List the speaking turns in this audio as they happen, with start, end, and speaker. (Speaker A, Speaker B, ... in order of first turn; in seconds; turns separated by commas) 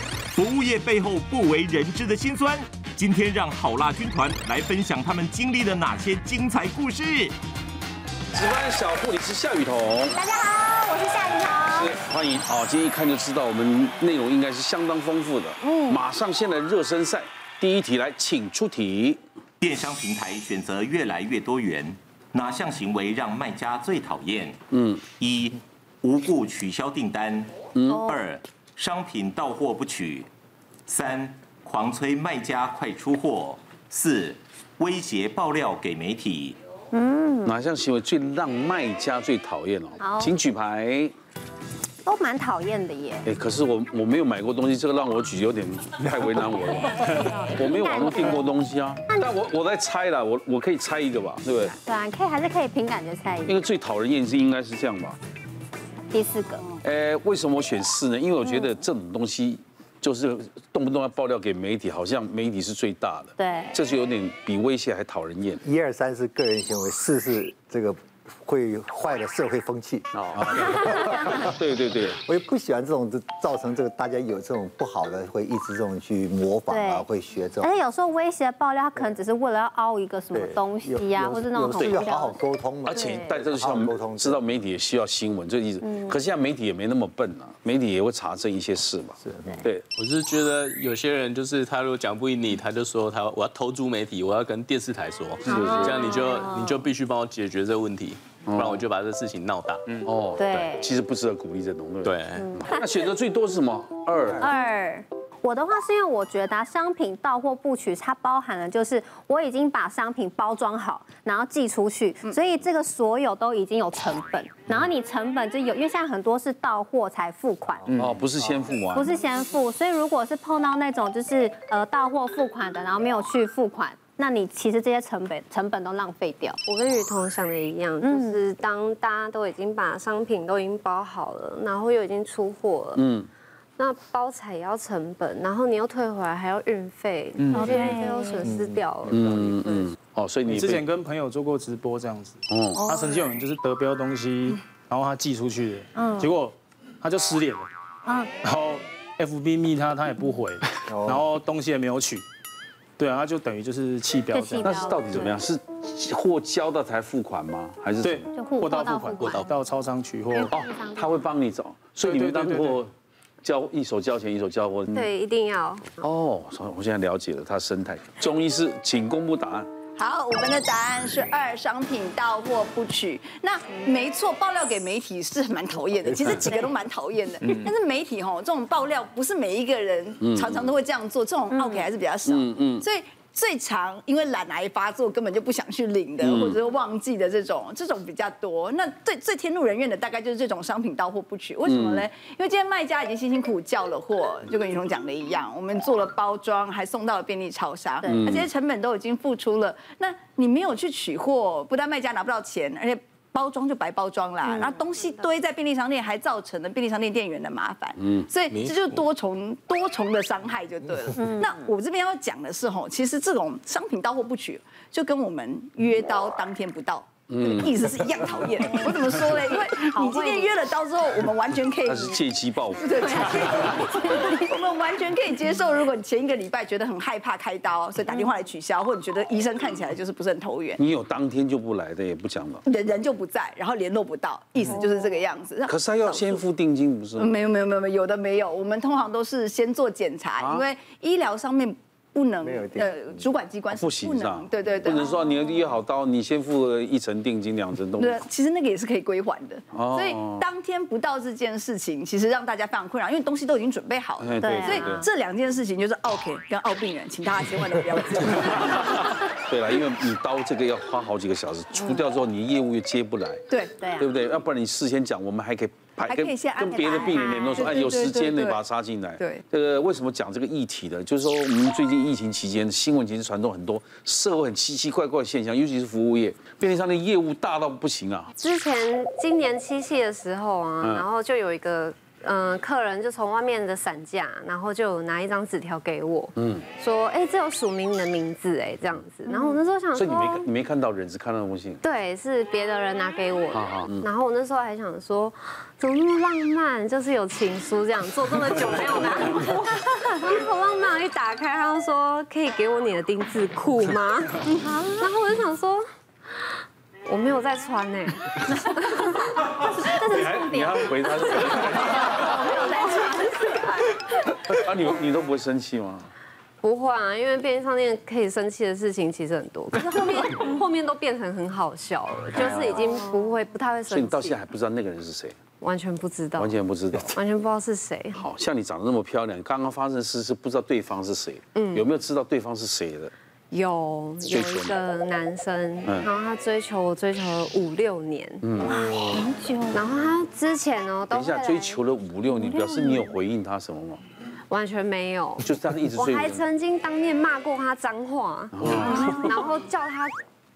Speaker A: 0.4-7.3, Speaker B: 8.3-10.2, Speaker C: 10.1-11.9, Speaker B: 11.6-19.2, Speaker C: 15.6-16.0, Speaker A: 19.6-24.6, Speaker B: 24.7-25.0, Speaker A: 25.1-30.3, Speaker B: 27.8-28.0, Speaker C: 27.9-28.1, Speaker A: 30.9-36.6, Speaker C: 36.9-37.5, Speaker B: 37.5-41.1, Speaker C: 40.0-40.3, Speaker C: 42.0-43.3, Speaker B: 43.3-51.8, Speaker C: 46.9-48.5, Speaker C: 51.8-53.5, Speaker B: 53.5-55.2, Speaker C: 56.1-56.7, Speaker B: 56.8-65.6, Speaker C: 63.4-63.8, Speaker D: 65.6-70.1, Speaker B: 70.2-72.2, Speaker D: 72.2-77.8, Speaker C: 76.7-77.1, Speaker C: 77.6-83.4, Speaker D: 78.9-79.2, Speaker D: 80.3-84.4, Speaker B: 81.8-82.1, Speaker B: 82.9-89.8, Speaker C: 85.8-86.2, Speaker D: 89.2-89.6, Speaker E: 90.0-100.1, Speaker C: 95.5-96.9, Speaker B: 95.5-96.1, Speaker B: 98.5-98.8, Speaker B: 100.0-104.5, Speaker C: 100.4-100.9, Speaker E: 102.0-102.5, Speaker C: 102.4-102.8, Speaker C: 104.4-117.9, Speaker D: 117.9-118.5, Speaker B: 118.0-119.1, Speaker C: 118.9-126.6, Speaker F: 126.7-133.0, Speaker C: 128.0-128.4, Speaker B: 133.0-133.3, Speaker F: 133.8-139.9, Speaker G: 137.4-137.7, Speaker C: 137.6-138.4, Speaker D: 138.4-138.7, Speaker B: 139.1-140.8, Speaker G: 140.5-147.7, Speaker B: 142.5-142.8, Speaker C: 142.8-143.2, Speaker C: 145.9-146.3, Speaker C: 148.1-148.3, Speaker G: 148.4-152.2, Speaker D: 150.9-151.2, Speaker G: 153.0-155.3, Speaker C: 154.3-154.9, Speaker B: 154.6-158.3, Speaker G: 158.0-160.6, Speaker C: 158.3-159.7, Speaker C: 160.4-161.1, Speaker B: 160.5-162.9, Speaker G: 162.0-162.8, Speaker B: 163.4-165.1, Speaker F: 164.9-166.0, Speaker B: 166.0-169.7, Speaker H: 170.0-222.2, Speaker D: 176.1-176.5, Speaker B: 180.2-180.7, Speaker C: 181.5-181.9, Speaker B: 182.3-182.8, Speaker B: 186.2-186.6, Speaker B: 191.7-192.1, Speaker C: 198.0-198.3, Speaker B: 198.1-198.5, Speaker C: 204.4-204.8, Speaker E: 208.5-209.0, Speaker C: 211.2-211.7, Speaker B: 217.3-217.7, Speaker C: 219.8-220.5, Speaker B: 221.9-223.6, Speaker H: 222.8-230.8, Speaker C: 224.2-224.5, Speaker C: 228.1-228.3, Speaker B: 230.8-232.6, Speaker H: 232.7-236.4, Speaker C: 234.6-235.1, Speaker B: 235.7-237.3, Speaker H: 237.2-245.1, Speaker B: 240.4-240.7, Speaker D: 242.4-243.2, Speaker B: 243.7-248.2, Speaker H: 248.0-259.0, Speaker B: 249.7-250.5, Speaker B: 254.2-255.1, Speaker C: 254.4-255.1, Speaker B: 259.5-263.4, Speaker H: 263.5-263.8, Speaker C: 263.8-264.1, Speaker B: 264.0-278.3, Speaker H: 266.1-268.6, Speaker C: 266.6-267.7, Speaker F: 278.4-290.5, Speaker B: 280.8-281.1, Speaker B: 286.4-286.7, Speaker C: 289.3-289.6, Speaker B: 289.9-291.8, Speaker F: 291.8-305.8, Speaker B: 293.5-294.1, Speaker C: 304.5-305.1, Speaker F: 307.1-309.4, Speaker C: 309.7-310.8, Speaker B: 310.1-312.3, Speaker F: 311.2-313.8, Speaker C: 312.2-313.5, Speaker B: 314.4-316.1, Speaker F: 316.6-324.4, Speaker B: 322.4-322.7, Speaker C: 322.8-323.3, Speaker B: 323.9-325.4, Speaker F: 325.6-326.6, Speaker B: 326.4-327.2, Speaker F: 327.1-328.2, Speaker B: 328.1-333.1, Speaker F: 331.6-331.9, Speaker F: 333.5-338.5, Speaker B: 334.2-334.8, Speaker B: 335.9-336.1, Speaker B: 338.4-338.9, Speaker C: 338.8-339.8, Speaker F: 339.7-341.8, Speaker B: 341.1-344.0, Speaker C: 342.4-343.1, Speaker F: 344.5-350.1, Speaker B: 345.4-346.4, Speaker B: 348.6-349.4